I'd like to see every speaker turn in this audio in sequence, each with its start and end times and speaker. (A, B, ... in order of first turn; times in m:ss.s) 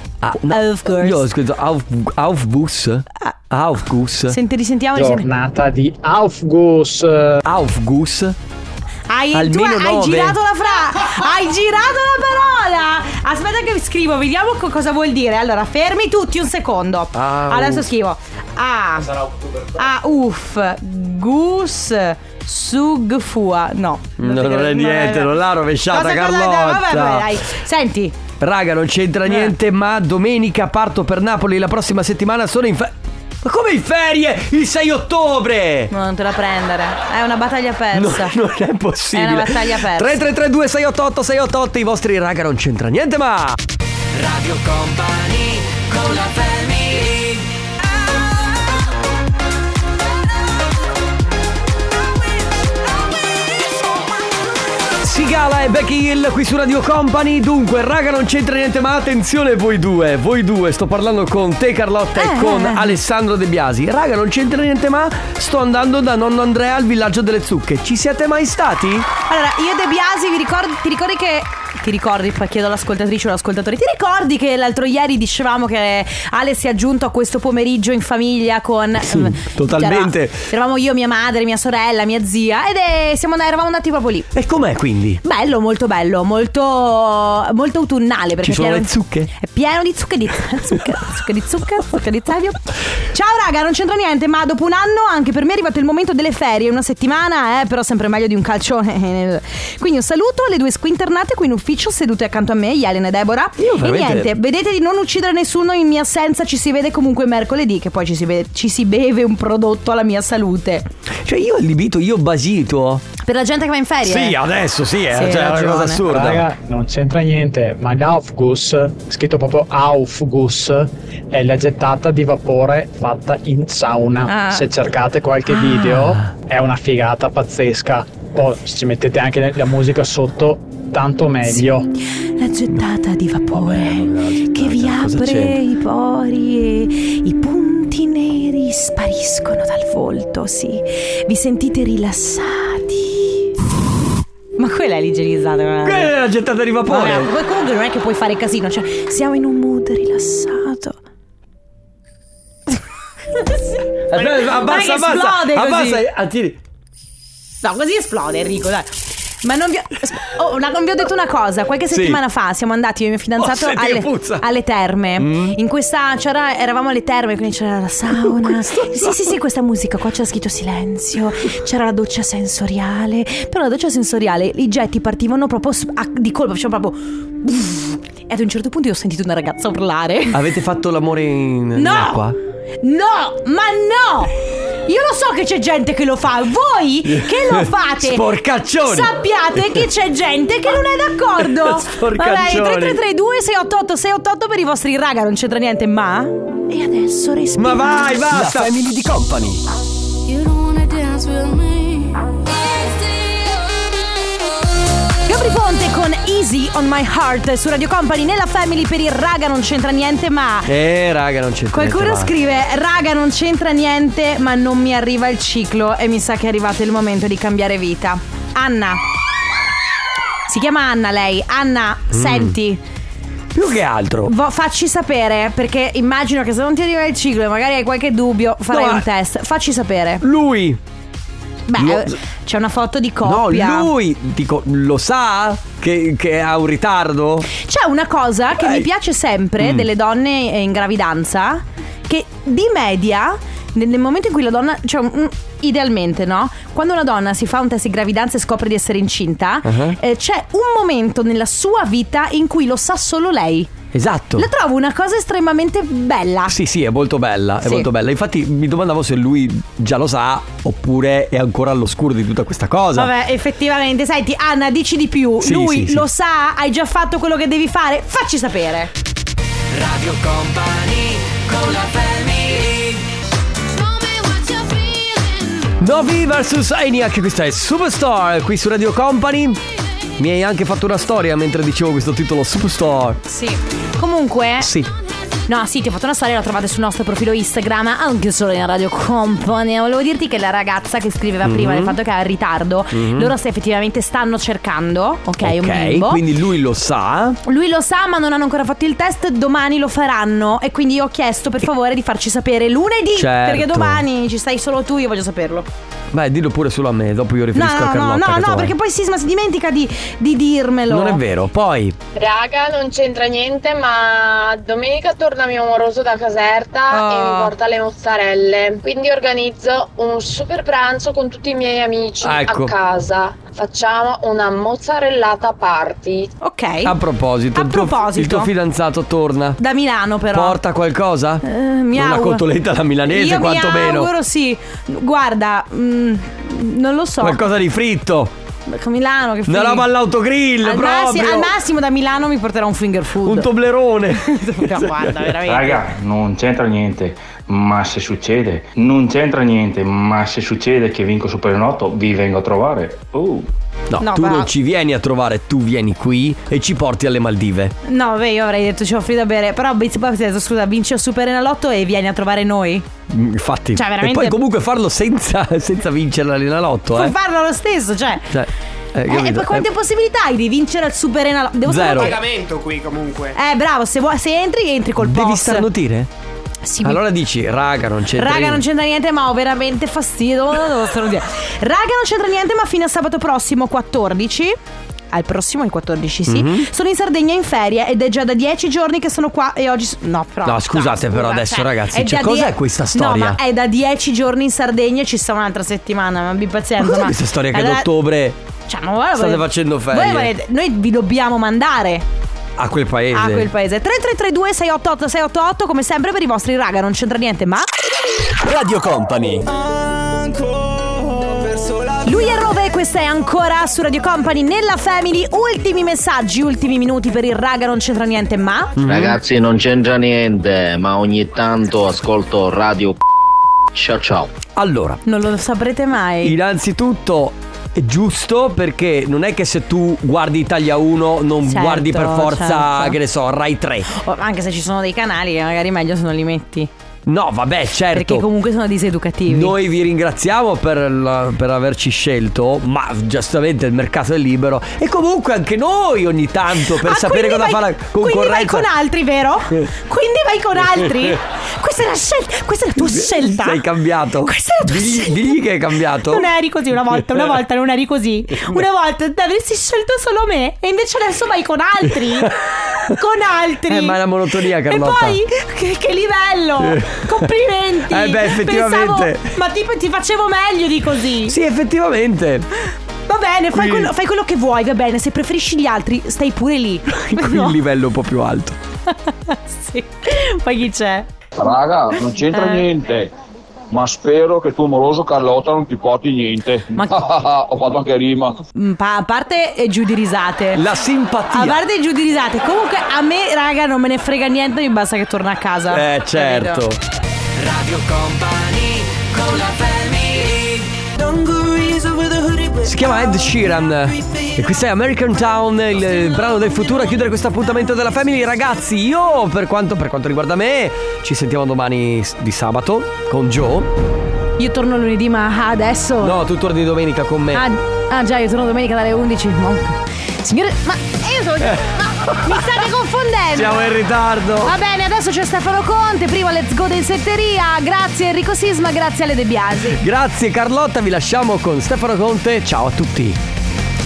0:00.2-0:04.4 A
0:00.5-0:01.2 B
0:04.3-0:05.2 B
0:05.0-0:07.4 C
0:07.4-0:08.4 A
0:09.1-0:19.1 B
0:09.3-0:10.4 A
0:17.1-0:17.9 A
0:19.8-0:25.4 B
0:24.2-0:27.4 A
0:25.9-0:28.2 B
0:28.4-0:35.9 A
0:29.2-0:29.5 B
0:35.9-0:38.3 B
0:37.9-0:43.6 A
0:39.1-0:40.2 B
0:44.2-0:47.4 D
0:55.0-1:09.1 A
1:02.2-1:03.0 B
1:09.3-1:24.3 B
1:19.0-1:20.4 A
1:24.3-1:25.2 A
1:25.2-1:50.9 B
1:28.4-1:29.3 A
1:43.6-1:44.3 A
1:51.1-1:53.0 A
1:53.2-1:54.4 B
1:54.0-1:56.4 A
1:55.1-1:56.0 B
1:56.0-2:11.9 C
2:04.2-2:04.7 B
2:05.5-2:06.0 B
2:12.1-2:23.5 B
2:13.5-2:15.6 A
2:24.6-2:26.1 B
2:25.8-2:27.3 A
2:26.8-2:31.0 B
2:33.3-2:36.0 B
2:34.1-2:36.6 A
2:37.6-3:00.4 B
2:41.9-2:42.2 A
2:43.4-2:44.4 A
2:45.2-2:45.6 A
2:48.1-2:49.4 A
3:00.3-3:02.4 A
3:01.8-3:02.2 B
3:02.8-3:08.2 B
3:07.0-3:09.9 A
3:08.8-3:18.7 B
3:11.4-3:13.0 A
3:17.6-3:19.6 A
3:25.2-3:30.7 B
3:30.6-3:32.3 A
3:31.7-3:39.0 B
3:40.5-3:42.8 B
3:42.1-3:42.6 A
3:43.5-3:44.3 A
3:44.2-3:50.2 B
3:48.7-3:49.0 A
3:50.2-3:50.8 A
3:51.7-3:53.9 B
3:51.8-3:52.2 A
3:53.2-3:57.5 A
3:57.5-4:13.7 B
3:58.6-3:58.9 A
3:59.6-3:59.9 A
4:09.6-4:10.0 A
4:13.9-4:14.5 A
4:14.4-4:16.5 B
4:16.5-4:23.1 A
4:23.0-4:28.9 B
4:25.4-4:26.0 A
4:29.7-4:33.0 D
4:35.8-4:39.6 A
4:40.2-4:43.2 A
4:43.3-4:44.7 B
4:44.6-4:44.9 A
4:45.5-4:56.2 B
4:51.4-4:52.0 A
4:52.9-4:53.3 A
4:55.4-4:57.4 A
4:57.4-5:05.7 B
5:03.2-5:04.0 A
5:06.1-5:08.7 A
5:07.5-5:11.2 B
5:10.9-5:12.0 A
5:12.2-5:26.3 E
5:16.9-5:17.5 B
5:22.2-5:22.7 A
5:26.4-5:26.9 B
5:26.8-5:29.6 A
5:27.5-5:28.5 B
5:29.6-5:30.6 B
5:30.3-5:31.4 A
5:31.4-5:32.4 B
5:31.9-5:34.1 A
5:33.1-5:37.4 B
5:37.2-5:38.3 A
5:38.7-5:39.9 B
5:39.5-5:41.5 A
5:40.6-5:43.5 B
5:43.2-5:45.4 A
5:44.2-5:45.8 B
5:45.4-5:53.5 F
5:53.9-5:57.7 A
5:54.0-5:54.5 B
5:57.8-6:02.8 B
6:03.1-6:07.1 A
6:03.7-6:04.4 B
6:06.9-6:08.3 B
6:08.3-6:09.7 A
6:09.1-6:12.2 B
6:11.6-6:12.2 A
6:13.3-6:15.7 B
6:15.0-6:16.1 A
6:16.6-6:17.0 B
6:16.8-6:18.6 A
6:18.2-6:24.6 B
6:25.1-6:37.9 B
6:26.3-6:26.7 A
6:30.4-6:33.4 A
6:36.8-6:38.4 A
6:38.7-6:42.0 B
6:39.1-6:40.3 A
6:42.6-6:43.5 A
6:43.1-6:47.7 B
6:48.4-6:49.5 A
6:52.0-6:58.7 B
6:58.8-6:59.2 A
6:58.8-7:03.0 G
7:03.7-7:04.3 G
7:04.5-7:05.0 A
7:05.0-7:06.4 B
7:06.2-7:13.9 A
7:11.4-7:13.0 B
7:13.9-7:16.7 B
7:17.0-7:18.3 A
7:17.9-7:19.5 B
7:19.3-7:28.7 A
7:26.6-7:33.6 B
7:30.8-7:31.1 A
7:32.8-7:36.3 A
7:34.2-7:35.4 B
7:36.0-7:42.3 B
7:36.9-7:37.2 A
7:42.0-7:42.3 A
7:42.9-7:44.0 B
7:43.7-7:45.2 A
7:44.6-7:51.4 B
7:46.6-7:47.3 A
7:47.8-7:49.4 A
7:51.2-7:52.5 A
7:53.1-7:57.5 B
7:53.5-7:53.9 A
7:56.9-7:58.6 A
7:58.9-8:01.1 B
8:01.4-8:03.1 H
8:02.3-8:02.7 B
8:03.7-8:08.4 H
8:06.7-8:07.0 B
8:08.5-8:10.6 B
8:10.5-8:11.6 A
8:11.3-8:16.6 B
8:15.7-8:16.8 A
8:17.4-8:21.2 D
8:22.6-8:33.7 A
8:34.4-8:36.2 B
8:36.0-8:37.4 A
8:37.3-8:43.8 B
8:41.4-8:42.4 A
8:43.3-8:44.5 A
8:44.4-8:49.8 B
8:49.7-8:53.2 A